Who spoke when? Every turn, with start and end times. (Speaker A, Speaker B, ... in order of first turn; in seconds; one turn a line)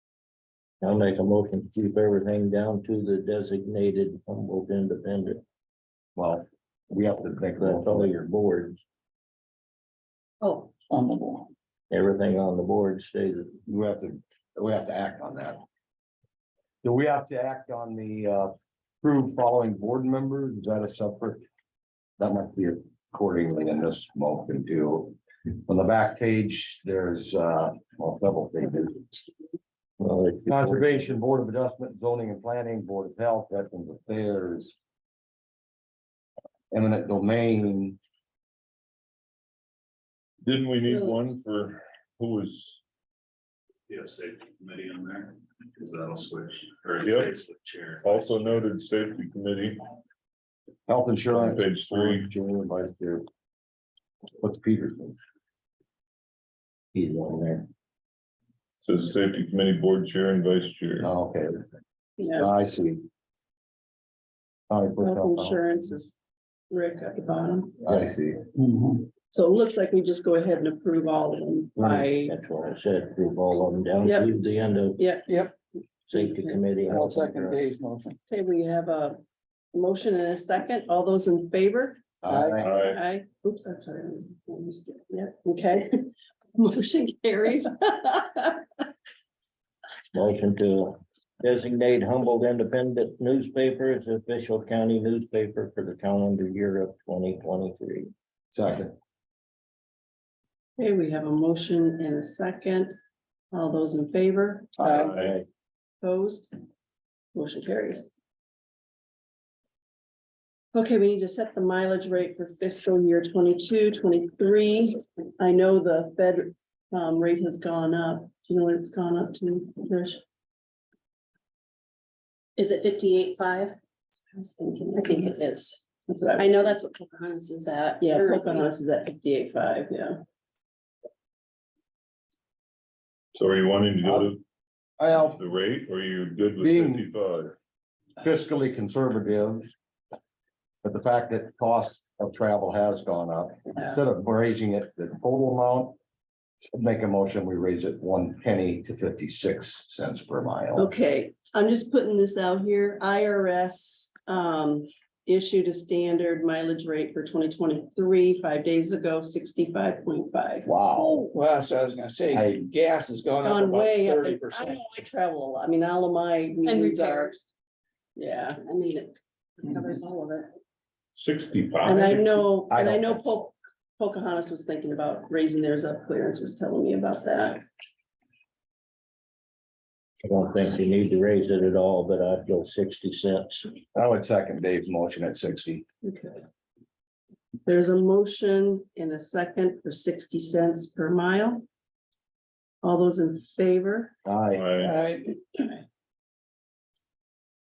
Speaker A: 0.8-5.4
Speaker B: 6.2-8.1
Speaker A: 7.6-8.8
Speaker C: 10.4-10.7
Speaker D: 10.9-11.5
Speaker A: 11.9-13.6
Speaker B: 13.7-15.6
Speaker B: 16.8-21.4
Speaker B: 22.2-29.1
Speaker A: 30.0-31.1
Speaker B: 30.4-34.7
Speaker B: 36.7-38.0
Speaker E: 40.4-42.8
Speaker F: 43.9-48.6
Speaker E: 47.0-47.4
Speaker E: 48.0-49.8
Speaker B: 50.9-53.2
Speaker E: 51.3-52.3
Speaker B: 54.4-55.2
Speaker A: 56.9-57.7
Speaker E: 58.8-61.1
Speaker B: 61.0-61.6
Speaker G: 62.2-62.4
Speaker B: 62.3-63.0
Speaker B: 64.7-65.6
Speaker G: 65.0-66.1
Speaker G: 66.7-67.8
Speaker B: 67.8-68.4
Speaker D: 68.5-69.1
Speaker G: 69.3-72.3
Speaker A: 71.8-75.1
Speaker G: 74.0-74.3
Speaker G: 75.0-75.3
Speaker D: 75.3-75.5
Speaker A: 76.1-77.6
Speaker G: 76.1-76.6
Speaker D: 76.8-78.2
Speaker G: 78.3-79.2
Speaker G: 79.7-88.6
Speaker B: 82.2-82.7
Speaker D: 82.2-82.7
Speaker E: 82.6-83.0
Speaker A: 90.1-98.1
Speaker B: 98.5-98.9
Speaker G: 100.8-102.9
Speaker G: 103.5-104.9
Speaker D: 104.8-105.1
Speaker A: 104.8-105.4
Speaker E: 105.0-105.3
Speaker G: 106.0-106.5
Speaker G: 107.3-108.1
Speaker G: 110.7-120.2
Speaker C: 122.6-123.8
Speaker G: 124.3-125.5
Speaker C: 124.9-125.8
Speaker G: 126.0-126.8
Speaker C: 126.4-128.7
Speaker G: 128.0-130.2
Speaker E: 133.3-134.4
Speaker B: 134.0-134.3
Speaker B: 135.0-135.4
Speaker E: 135.3-137.6
Speaker B: 136.6-137.1
Speaker B: 138.2-139.7
Speaker B: 140.8-146.0
Speaker B: 146.7-150.9
Speaker G: 150.8-161.3
Speaker B: 160.6-161.3
Speaker D: 161.3-164.8
Speaker B: 162.3-162.6
Speaker G: 163.4-167.3
Speaker C: 166.6-167.5
Speaker G: 168.2-168.6
Speaker C: 168.6-170.5
Speaker E: 171.1-172.4
Speaker G: 171.8-177.6
Speaker B: 172.7-173.5
Speaker A: 180.2-183.7
Speaker B: 183.9-185.8
Speaker G: 186.0-186.4
Speaker G: 187.7-191.7
Speaker G: 192.8-194.1
Speaker B: 194.2-194.6
Speaker E: 194.5-194.9
Speaker D: 194.8-195.4